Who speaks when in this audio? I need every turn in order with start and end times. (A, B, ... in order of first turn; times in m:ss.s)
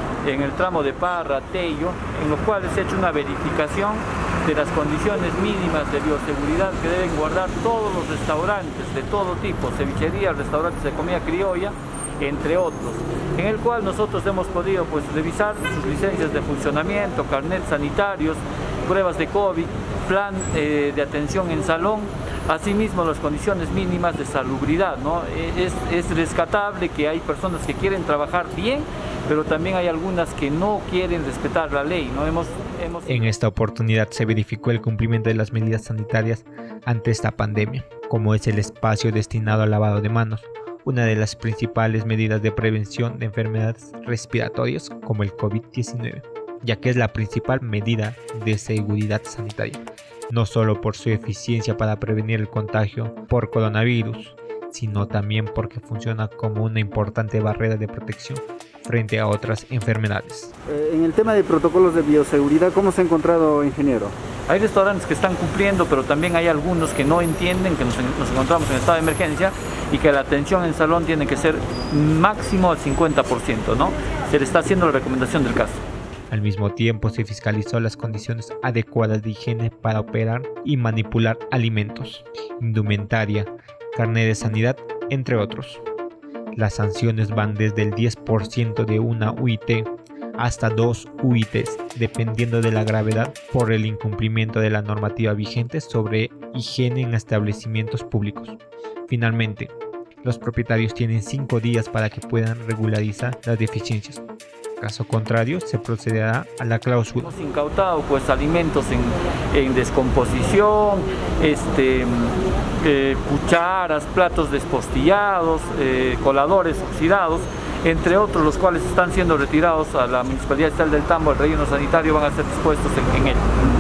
0:00.2-0:33.3 A
0:33.1-1:00.5 B
1:00.7-1:04.1 C
1:04.5-1:15.8 A
1:16.3-1:25.8 B
1:26.6-1:44.2 B
1:44.8-1:47.3 B
1:47.2-2:03.4 A